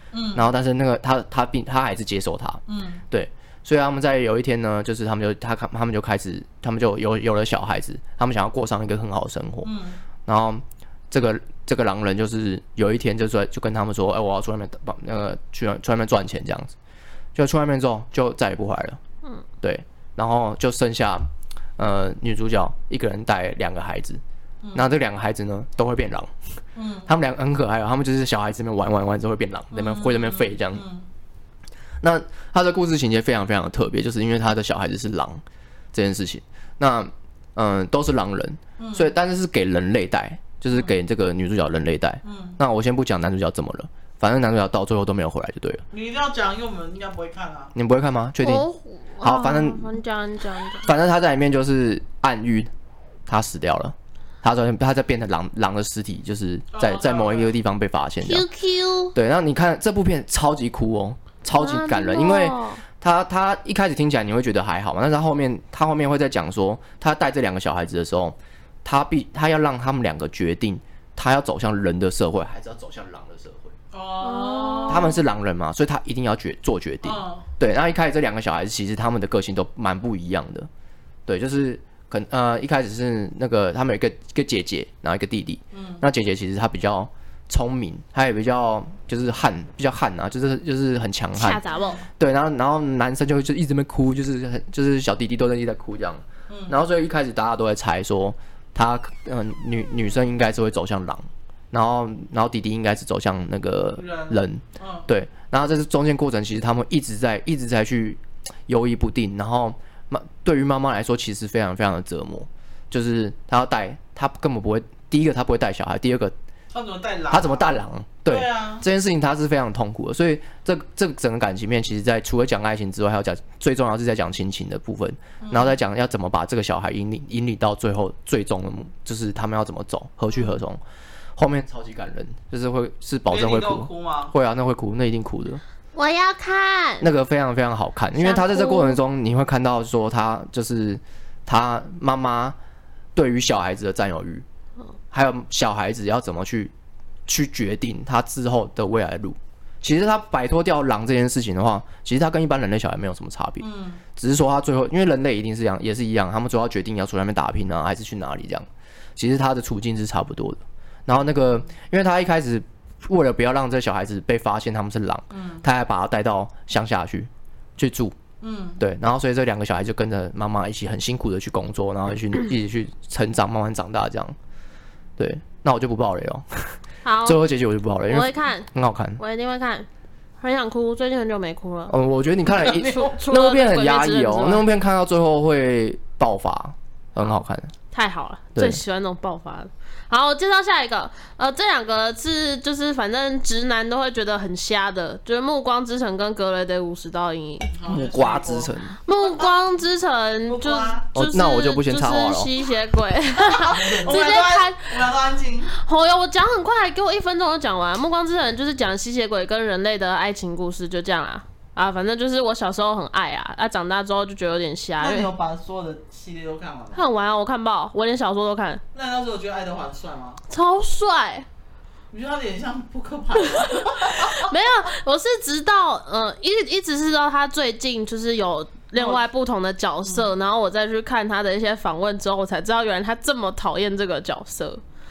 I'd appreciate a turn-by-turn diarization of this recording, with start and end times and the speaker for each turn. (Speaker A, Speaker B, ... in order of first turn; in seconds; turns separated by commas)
Speaker A: 0.1-0.5, Speaker B: 0.3-9.7, Speaker A: 2.7-3.0, Speaker A: 9.6-10.0, Speaker B: 10.2-16.7, Speaker B: 17.3-19.0, Speaker B: 19.6-24.2, Speaker A: 24.6-24.9, Speaker B: 24.7-26.3, Speaker A: 26.7-27.1, Speaker B: 27.1-30.8, Speaker A: 29.7-31.1, Speaker B: 32.0-45.8, Speaker A: 38.8-39.1, Speaker A: 42.2-42.6, Speaker A: 45.9-47.7, Speaker B: 47.7-48.6, Speaker C: 48.4-50.9, Speaker B: 49.2-49.9, Speaker B: 50.8-52.7, Speaker B: 53.3-58.5, Speaker A: 56.7-57.5, Speaker C: 58.2-59.1, Speaker B: 59.1-73.7, Speaker C: 61.6-62.8, Speaker A: 73.9-75.2, Speaker C: 74.2-75.2, Speaker B: 74.9-80.7, Speaker A: 77.0-77.5, Speaker B: 81.3-91.6, Speaker A: 85.7-86.0, Speaker C: 91.4-92.0, Speaker B: 92.2-116.3, Speaker A: 96.5-96.8, Speaker A: 104.0-105.0, Speaker A: 116.7-117.7, Speaker B: 117.3-130.8, Speaker A: 118.2-118.8, Speaker A: 125.4-125.8, Speaker B: 131.3-135.6, Speaker A: 133.3-134.3, Speaker C: 135.9-137.1, Speaker B: 137.0-142.6, Speaker C: 138.1-139.0, Speaker B: 143.1-144.4, Speaker B: 145.1-146.7, Speaker B: 147.3-153.6, Speaker A: 153.6-154.0, Speaker B: 154.2-168.2, Speaker A: 165.3-165.6, Speaker A: 168.4-168.8, Speaker B: 168.8-174.3, Speaker B: 175.2-179.2, Speaker C: 177.0-177.4, Speaker C: 178.1-179.9, Speaker C: 180.4-181.9, Speaker B: 181.9-187.7, Speaker C: 182.6-184.6, Speaker A: 182.7-183.1, Speaker C: 187.9-197.7, Speaker A: 197.7-199.6, Speaker B: 197.9-199.0, Speaker C: 199.0-205.1, Speaker A: 200.5-201.1, Speaker B: 201.1-202.5, Speaker A: 203.4-205.7, Speaker C: 205.7-215.3, Speaker A: 215.0-217.0, Speaker C: 216.9-218.8, Speaker A: 218.9-220.4, Speaker C: 220.5-221.4, Speaker A: 222.1-224.5, Speaker C: 223.5-234.8, Speaker A: 228.9-229.2